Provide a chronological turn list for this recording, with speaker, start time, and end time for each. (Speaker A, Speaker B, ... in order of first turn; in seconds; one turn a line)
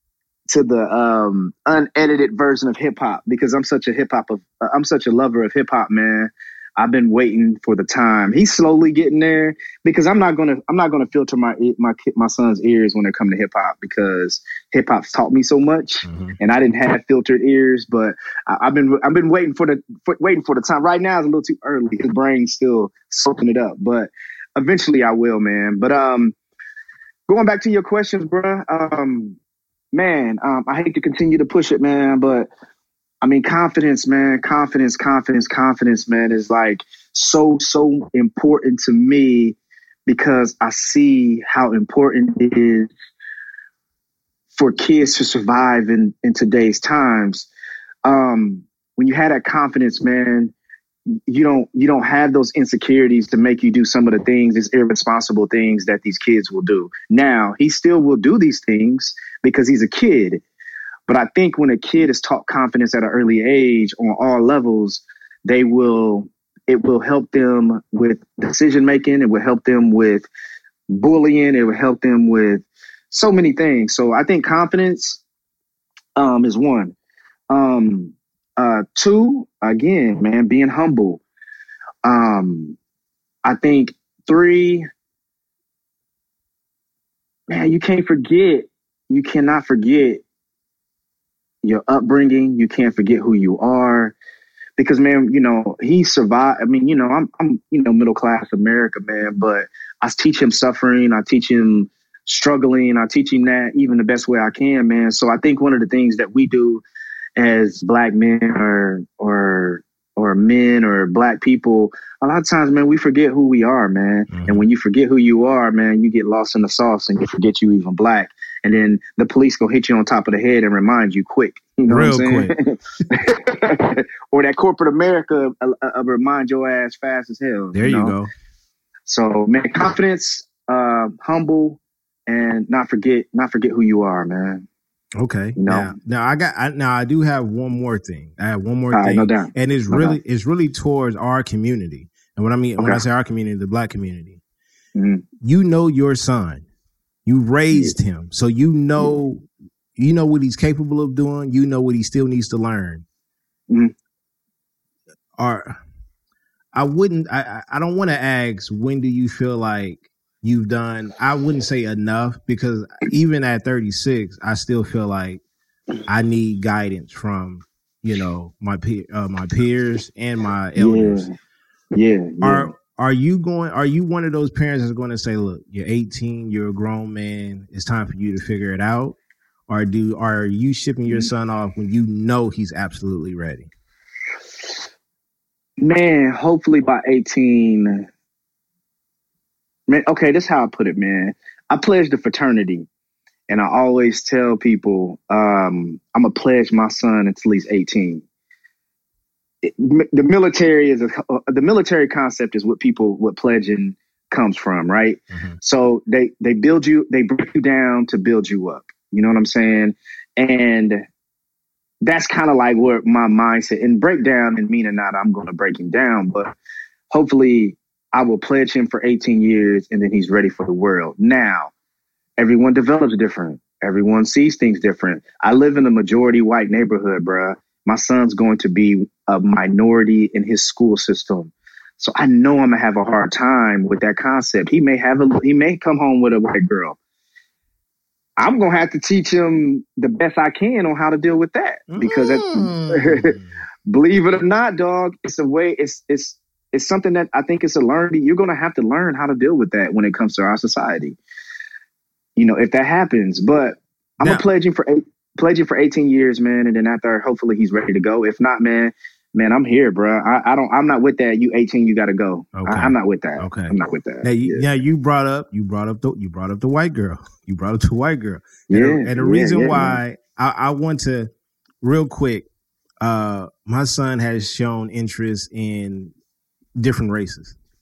Speaker A: 0.5-26.4
Speaker B: 16.1-16.4
Speaker A: 27.3-29.4
Speaker A: 29.9-32.5
Speaker A: 33.2-39.6
Speaker A: 40.1-42.9
Speaker A: 44.5-47.5
Speaker A: 48.0-50.5
Speaker A: 51.3-60.4
Speaker A: 61.1-70.3
Speaker A: 70.9-75.2
Speaker A: 76.2-77.0
Speaker A: 77.5-81.2
Speaker A: 82.0-82.8
Speaker A: 83.5-84.9
Speaker A: 87.5-90.2
Speaker A: 91.6-94.2
Speaker A: 94.8-106.8
Speaker A: 107.4-128.2
Speaker B: 114.3-114.6
Speaker B: 121.9-122.5
Speaker B: 127.7-128.3
Speaker A: 129.1-134.7
Speaker B: 135.2-144.4
Speaker A: 135.6-135.9
Speaker A: 138.9-140.2
Speaker A: 142.8-143.0
Speaker A: 145.0-145.2
Speaker B: 145.4-146.7
Speaker B: 147.3-149.4
Speaker B: 150.0-153.1
Speaker B: 155.4-155.8
Speaker B: 156.7-165.4
Speaker B: 166.1-171.3
Speaker A: 170.8-171.3
Speaker A: 171.9-172.7
Speaker B: 172.4-179.2
Speaker B: 179.7-183.7
Speaker A: 185.8-188.1
Speaker A: 189.9-192.9
Speaker A: 193.5-198.2
Speaker A: 199.6-211.0
Speaker B: 205.3-205.6
Speaker A: 212.0-216.5
Speaker A: 217.1-221.7
Speaker A: 222.4-237.0
Speaker A: 238.4-243.3
Speaker B: 241.9-243.5
Speaker A: 243.9-251.2
Speaker A: 252.4-264.7
Speaker B: 262.6-271.3
Speaker A: 268.7-270.0
Speaker B: 271.8-272.5
Speaker B: 273.0-276.1
Speaker B: 276.8-277.6